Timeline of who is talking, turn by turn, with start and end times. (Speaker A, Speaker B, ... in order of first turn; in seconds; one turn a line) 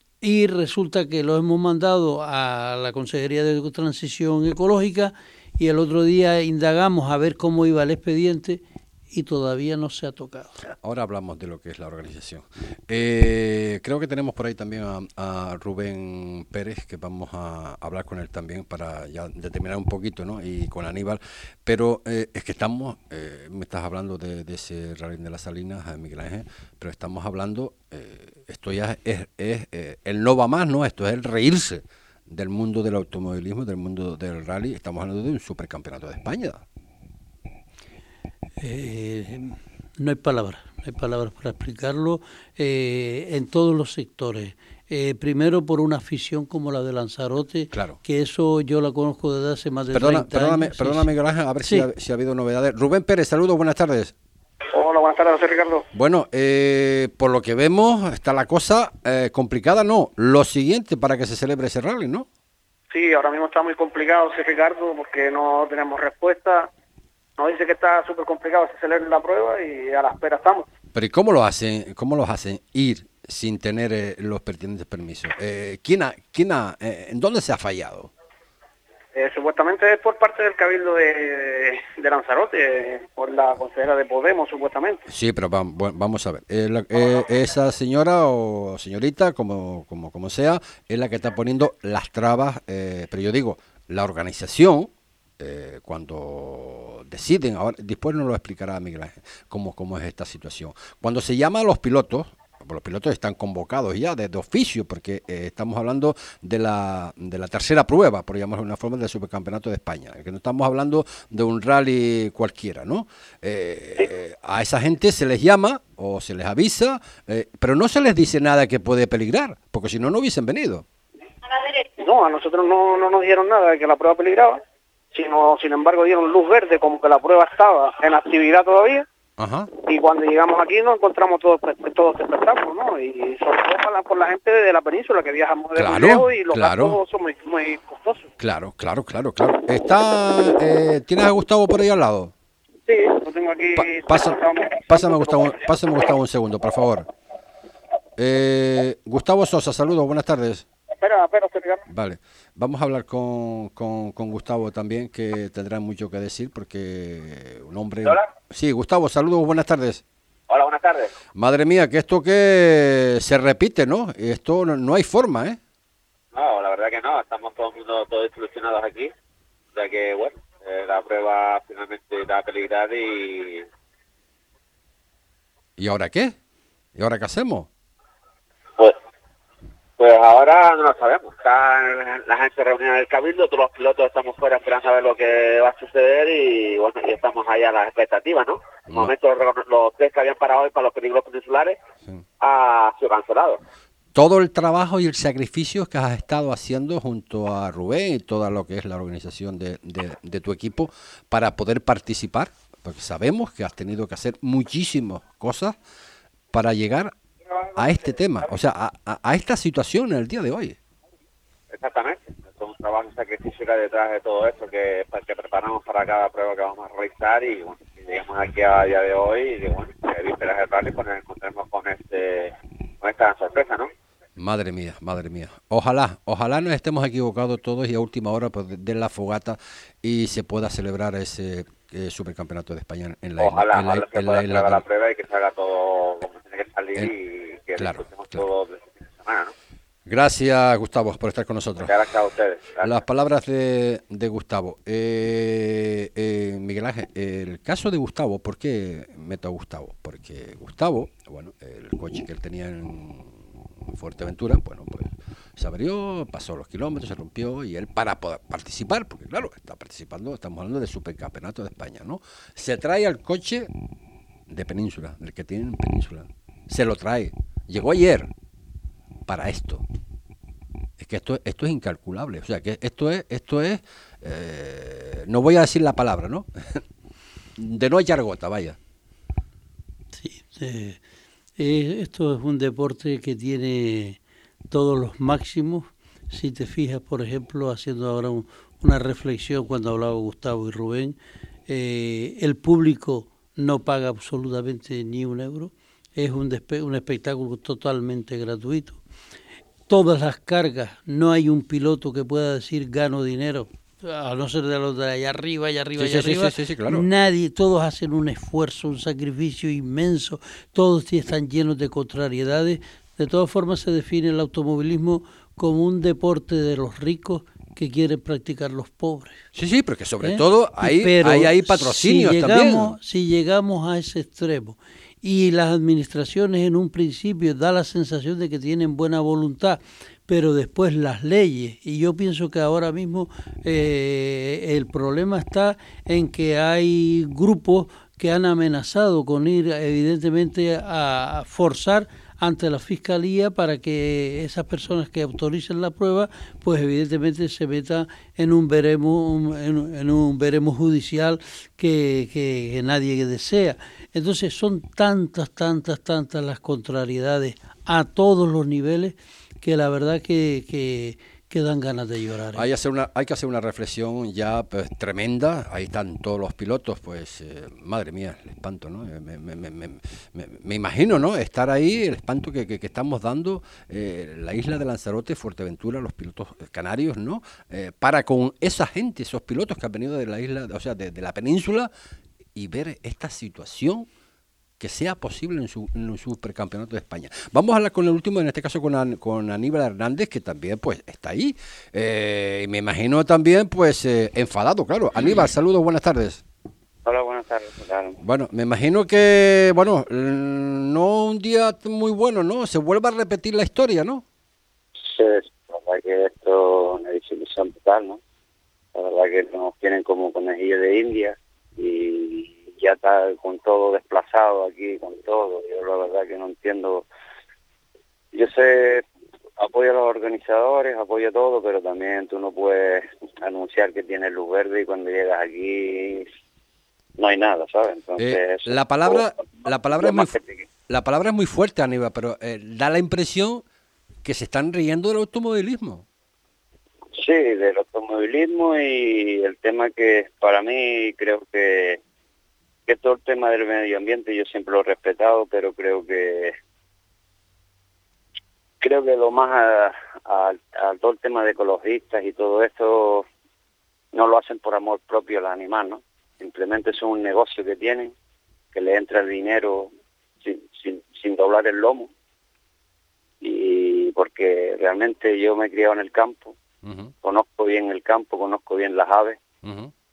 Speaker A: 0.2-10.5
Speaker B: 10.6-36.6
Speaker A: 38.6-51.1
Speaker B: 47.7-48.0
Speaker B: 49.9-54.1
Speaker C: 54.7-55.8
Speaker B: 55.9-62.3
Speaker C: 62.9-66.7
Speaker C: 67.4-70.7
Speaker B: 70.9-78.1
Speaker C: 79.1-85.0
Speaker B: 85.1-120.8
Speaker C: 121.8-124.6
Speaker C: 125.1-129.1
Speaker B: 129.4-129.7
Speaker C: 129.8-138.3
Speaker B: 135.7-137.0
Speaker B: 138.4-142.3
Speaker C: 142.9-145.7
Speaker B: 143.7-147.1
Speaker B: 148.2-150.6
Speaker C: 150.9-151.8
Speaker B: 151.9-160.0
Speaker D: 160.5-161.1
Speaker B: 161.3-165.6
Speaker D: 166.3-169.1
Speaker D: 169.7-173.7
Speaker B: 175.8-176.3
Speaker B: 176.9-177.7
Speaker D: 180.0-191.8
Speaker D: 192.4-193.6
Speaker B: 194.1-205.8
Speaker B: 206.5-207.1
Speaker B: 207.7-210.8
Speaker D: 211.7-223.9
Speaker B: 224.4-234.8
Speaker D: 233.4-239.5
Speaker B: 237.8-238.5
Speaker B: 240.1-241.9
Speaker D: 241.8-243.0
Speaker B: 242.8-263.7
Speaker B: 264.5-268.3
Speaker B: 269.2-269.8
Speaker B: 271.0-276.8
Speaker B: 277.6-278.8
Speaker A: 280.2-281.0
Speaker A: 281.6-284.2
Speaker A: 284.7-291.1
Speaker A: 291.7-299.0
Speaker A: 299.9-319.4
Speaker B: 305.9-307.1
Speaker B: 319.5-322.9
Speaker A: 320.2-362.6
Speaker B: 362.5-381.9
Speaker B: 382.5-384.1
Speaker B: 384.8-396.4
Speaker E: 397.0-398.2
Speaker B: 398.2-404.2
Speaker E: 405.0-408.2
Speaker E: 408.9-417.1
Speaker E: 418.3-419.0
Speaker E: 419.6-426.3
Speaker E: 427.2-429.2
Speaker B: 428.2-430.4
Speaker E: 429.9-430.6
Speaker B: 430.9-433.6
Speaker B: 434.2-436.1
Speaker E: 437.1-442.0
Speaker E: 442.9-446.5
Speaker E: 448.8-453.2
Speaker E: 454.1-458.1
Speaker E: 458.7-459.9
Speaker E: 460.4-462.1
Speaker E: 463.4-466.6
Speaker B: 466.8-467.1
Speaker E: 467.2-469.4
Speaker B: 469.6-469.9